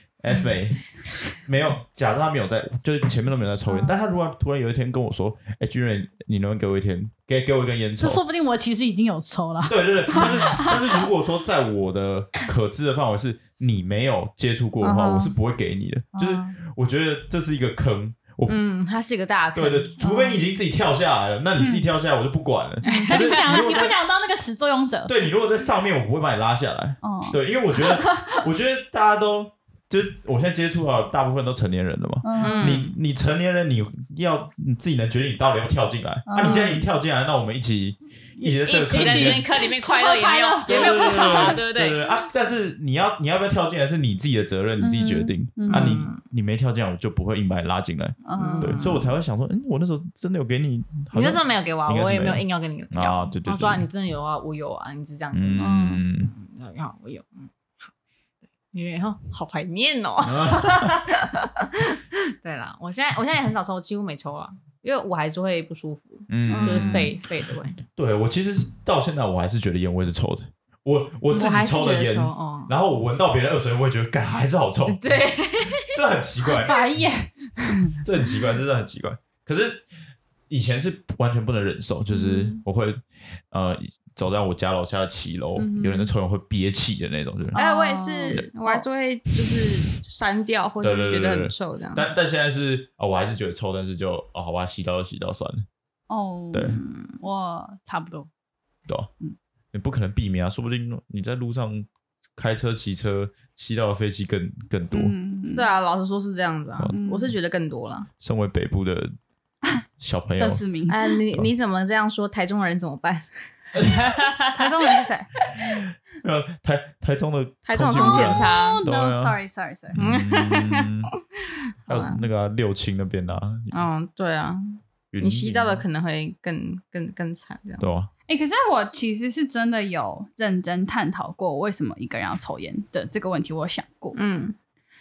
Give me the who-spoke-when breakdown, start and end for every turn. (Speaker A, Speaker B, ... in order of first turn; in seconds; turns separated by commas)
Speaker A: 0.2-8.2, Speaker B: 3.7-3.9, Speaker B: 8.0-10.8, Speaker A: 9.7-18.6, Speaker B: 14.8-15.3, Speaker B: 16.1-16.5, Speaker C: 18.5-20.1, Speaker A: 19.6-23.9, Speaker B: 20.0-20.3, Speaker B: 21.6-21.9, Speaker C: 22.9-23.9, Speaker B: 22.9-25.1, Speaker A: 25.1-39.4, Speaker B: 27.0-27.4, Speaker B: 32.2-32.8, Speaker C: 32.4-33.0, Speaker B: 36.3-36.8, Speaker C: 36.4-36.8, Speaker B: 38.4-41.6, Speaker C: 38.6-42.0, Speaker A: 40.7-53.8, Speaker B: 44.8-46.0, Speaker C: 45.7-46.2, Speaker B: 48.2-48.8, Speaker C: 48.4-49.1, Speaker C: 51.1-57.9, Speaker A: 55.3-56.3, Speaker B: 55.6-56.0, Speaker C: 58.7-67.8, Speaker A: 60.2-61.0, Speaker A: 66.3-67.2, Speaker B: 66.5-67.1, Speaker A: 68.0-76.8, Speaker C: 71.3-72.7, Speaker C: 74.9-76.0, Speaker B: 76.6-78.0, Speaker A: 77.9-79.8, Speaker A: 80.5-87.6, Speaker B: 82.1-82.6, Speaker B: 85.6-86.1, Speaker B: 87.5-88.8, Speaker C: 87.5-92.1, Speaker A: 90.8-95.7, Speaker B: 96.1-98.3, Speaker A: 96.5-96.8, Speaker A: 99.7-105.1, Speaker B: 104.9-105.7, Speaker C: 105.5-108.1, Speaker B: 106.9-107.3, Speaker A: 108.2-109.2, Speaker A: 110.0-110.6, Speaker B: 110.4-111.0, Speaker C: 110.9-113.3, Speaker C: 113.8-114.7, Speaker B: 114.5-115.3, Speaker A: 116.1-119.4, Speaker C: 117.7-118.8, Speaker B: 117.9-120.0, Speaker A: 119.9-121.1, Speaker C: 120.0-120.9, Speaker C: 121.9-122.2, Speaker A: 121.9-123.7, Speaker C: 123.7-127.9, Speaker A: 125.1-125.8, Speaker A: 127.8-128.1, Speaker B: 128.3-134.2, Speaker C: 134.1-134.6